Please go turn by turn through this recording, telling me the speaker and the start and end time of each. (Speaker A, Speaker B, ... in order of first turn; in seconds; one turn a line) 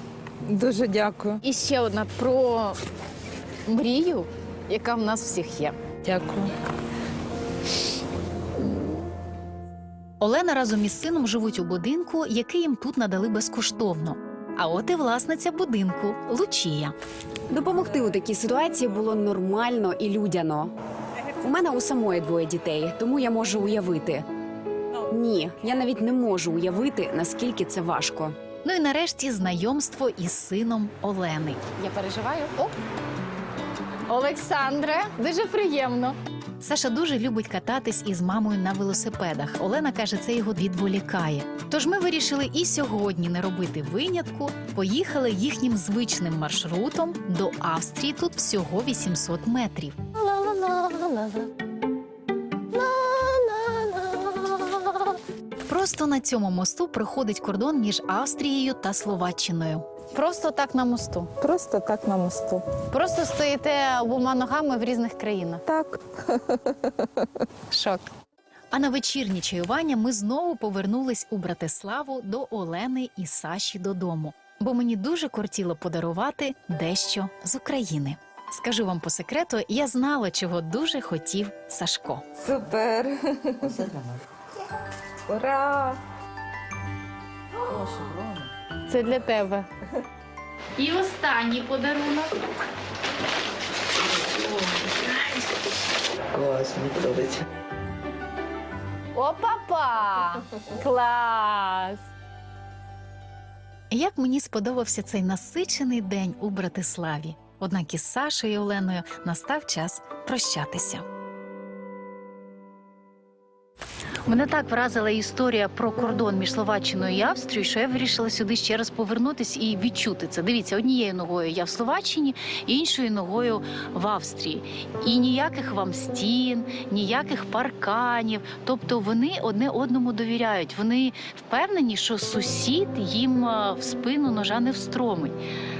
Speaker A: 0.5-1.4
Speaker B: 1.4-2.8
Speaker B: 3.6-5.8
Speaker A: 6.0-6.5
Speaker C: 10.2-16.9
Speaker D: 17.5-20.7
Speaker D: 21.3-24.3
Speaker D: 25.1-28.4
Speaker C: 28.6-32.5
Speaker B: 32.0-32.7
Speaker B: 34.1-36.1
Speaker C: 34.4-34.7
Speaker C: 35.6-36.0
Speaker C: 36.6-51.5
Speaker C: 52.7-55.1
Speaker C: 55.6-60.9
Speaker B: 60.0-61.3
Speaker A: 61.4-62.6
Speaker B: 62.9-65.6
Speaker C: 67.7-68.1
Speaker C: 68.7-82.2
Speaker A: 82.4-84.0
Speaker A: 85.3-86.0
Speaker B: 88.9-89.7
Speaker B: 90.8-92.5
Speaker B: 99.1-102.0
Speaker C: 103.9-111.0
Speaker C: 114.2-135.4